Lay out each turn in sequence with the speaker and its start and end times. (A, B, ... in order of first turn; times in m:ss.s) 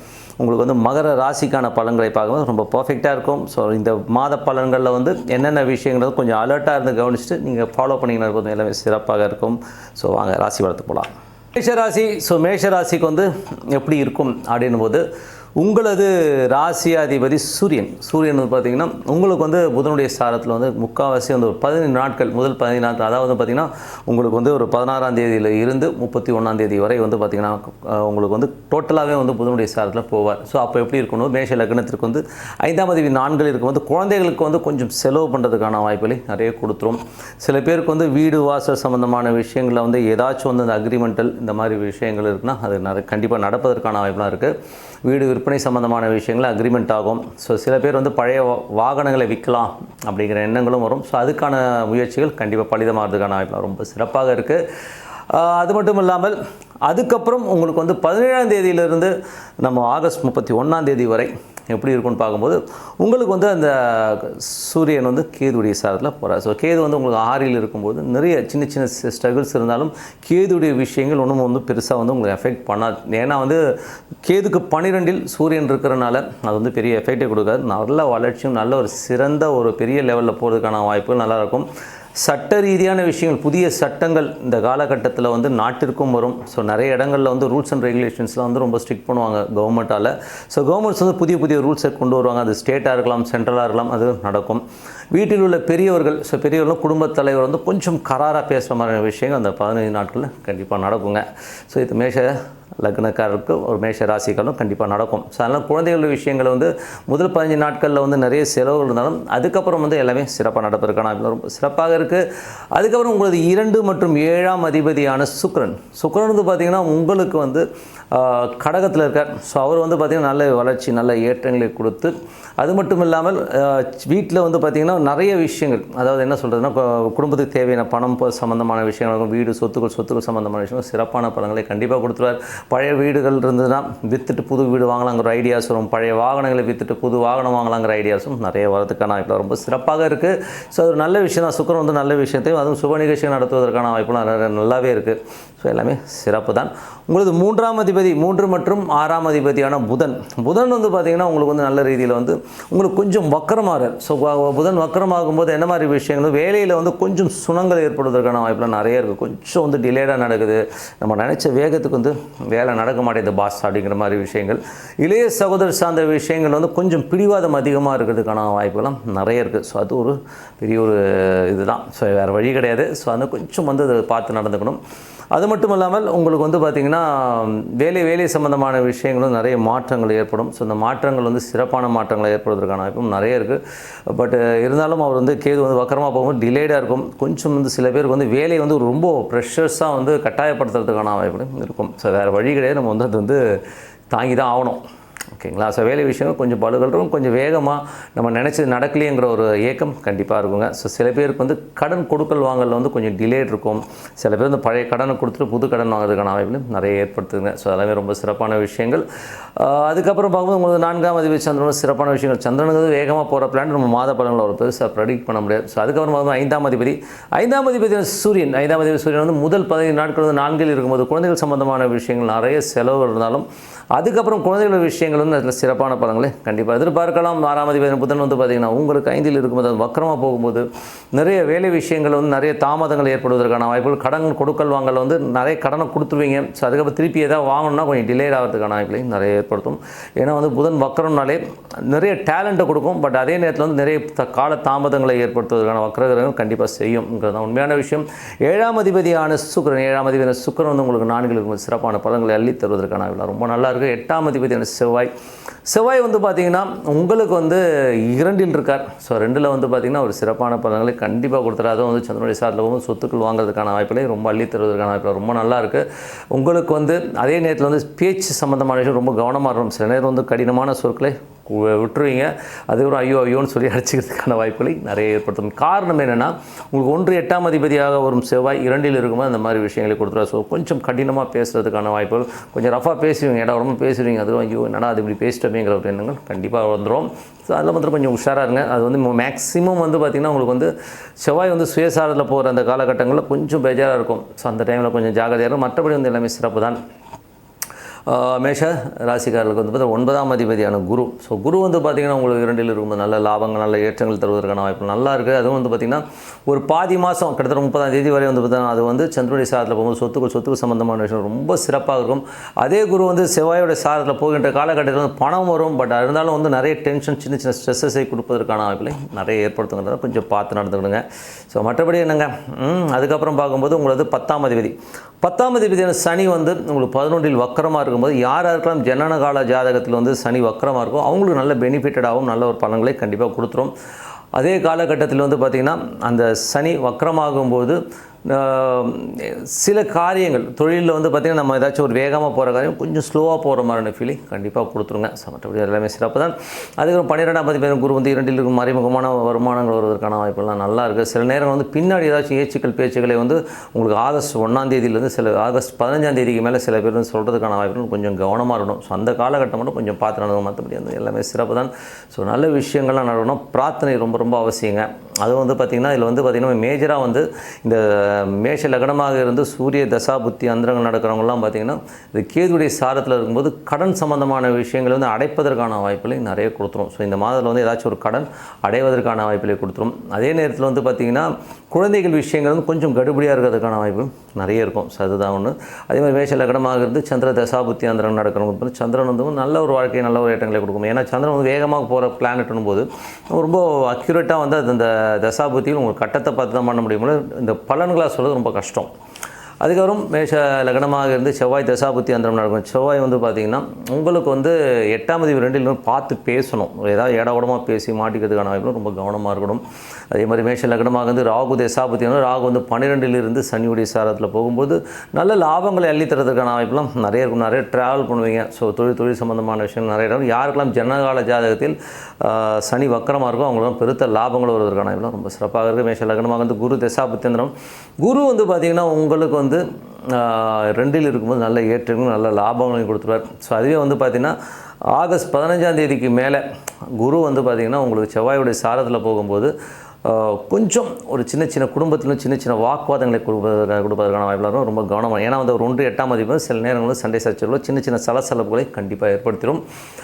0:00.4-0:15.0 A
0:15.6-0:54.6 A
0:55.3-1:13.6 A
1:14.2-1:21.7 A
1:22.2-2:54.8 A
2:55.3-3:13.4 A
3:14.1-3:14.8 A
3:15.4-4:15.1 A
4:15.7-4:56.8 A
4:58.1-5:33.7 A
5:34.4-6:38.9 A
6:39.6-7:14.4 A
7:14.9-7:16.4 A
7:17.0-7:19.5 A
7:20.0-7:29.6 A